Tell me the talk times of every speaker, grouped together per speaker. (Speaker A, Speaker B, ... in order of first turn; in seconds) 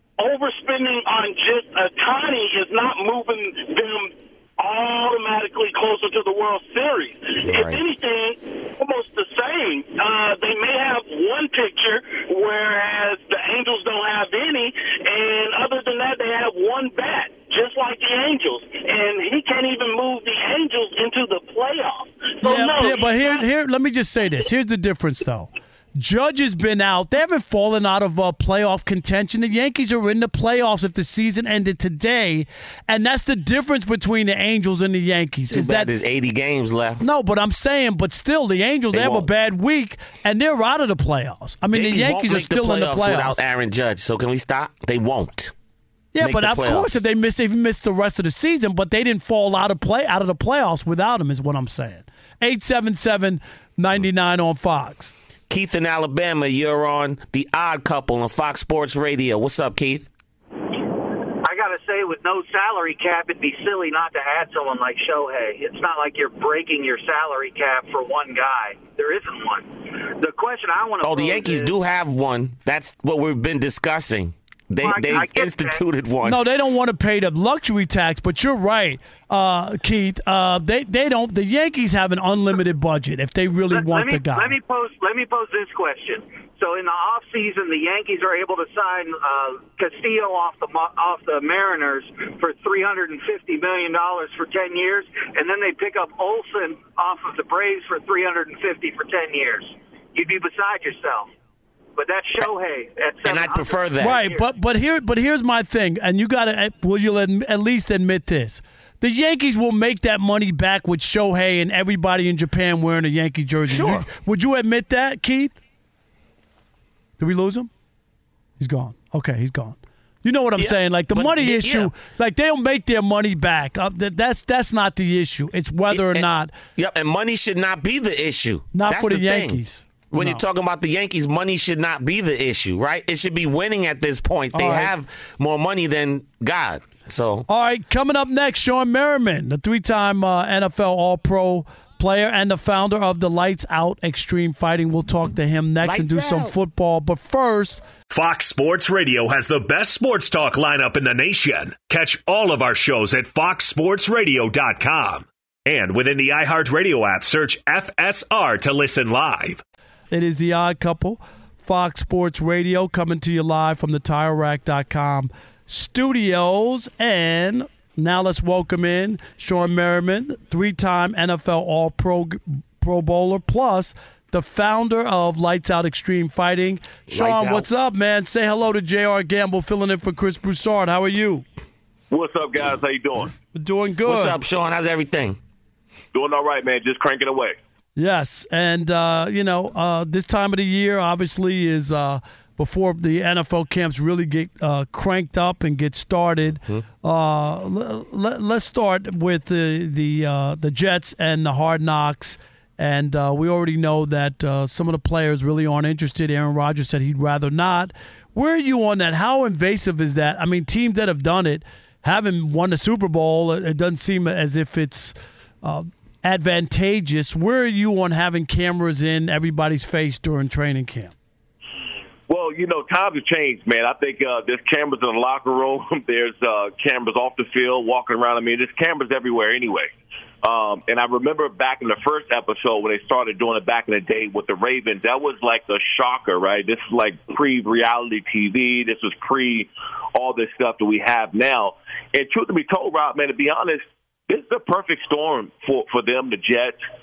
Speaker A: 0.2-23.4
Speaker B: 7.4-7.8, 35.5-37.0, 38.9-39.3, 41.7-45.5, 46.2-47.0, 55.5-60.1, 71.0-76.4, 103.2-104.2, 113.7-114.1, 120.6-121.9, 125.9-126.2, 126.8-137.5, 145.8-146.5, 177.1-177.7, 184.1-185.4
Speaker C: 22.4-35.9, 37.0-43.4, 46.1-55.1, 76.2-84.6, 104.0-115.6, 117.2-117.7, 118.6-126.5, 128.7-130.4, 134.5-134.9, 137.5-147.8, 160.1-181.4, 183.5-184.4, 188.0-221.1
Speaker D: 61.5-71.7, 74.8-75.8, 83.7-101.3, 102.0-104.4
Speaker E: 148.1-159.6
Speaker F: 182.1-183.3, 186.1-187.6, 222.3-229.9, 230.4-246.8